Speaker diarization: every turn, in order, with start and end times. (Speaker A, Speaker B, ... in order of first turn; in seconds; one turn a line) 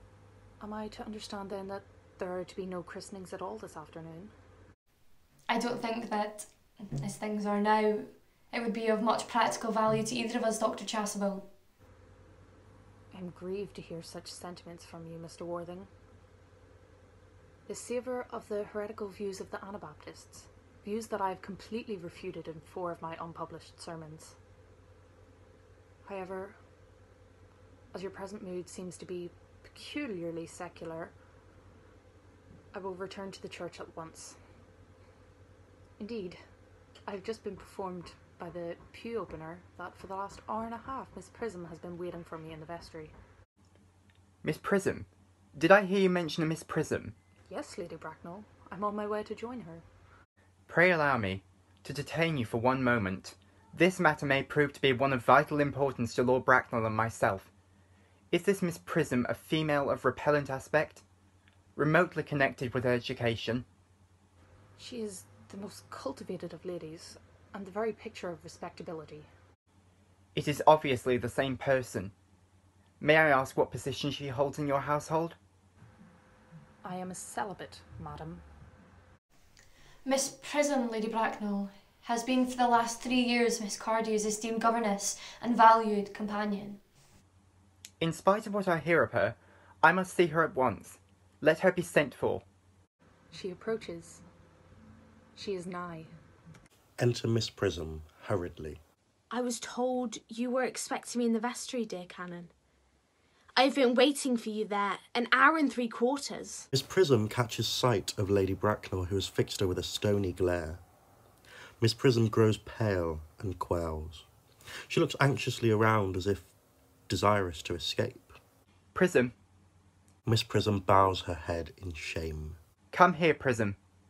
Speaker A: 0.6-4.3
Speaker B: 5.5-11.5
Speaker A: 13.1-15.9
Speaker A: 17.7-24.4
Speaker A: 26.0-26.6
Speaker A: 27.9-31.1
Speaker A: 32.7-34.4
Speaker A: 36.0-36.4
Speaker A: 37.1-43.1
Speaker C: 44.4-47.1
Speaker A: 47.5-49.8
Speaker C: 50.7-57.5
Speaker C: 58.3-61.0
Speaker C: 61.8-63.6
Speaker A: 64.8-69.3
Speaker C: 70.3-72.1
Speaker C: 73.0-75.3
Speaker A: 76.8-78.4
Speaker B: 80.0-86.8
Speaker C: 88.0-92.4
Speaker A: 93.3-94.2
Speaker A: 95.3-96.1
Speaker D: 97.0-98.8
Speaker E: 99.3-102.5
Speaker E: 103.5-106.7
Speaker D: 106.7-110.8
Speaker D: 111.8-114.3
Speaker D: 114.9-116.5
Speaker D: 117.1-118.4
Speaker C: 118.9-119.3
Speaker D: 120.2-122.6
Speaker C: 122.9-123.8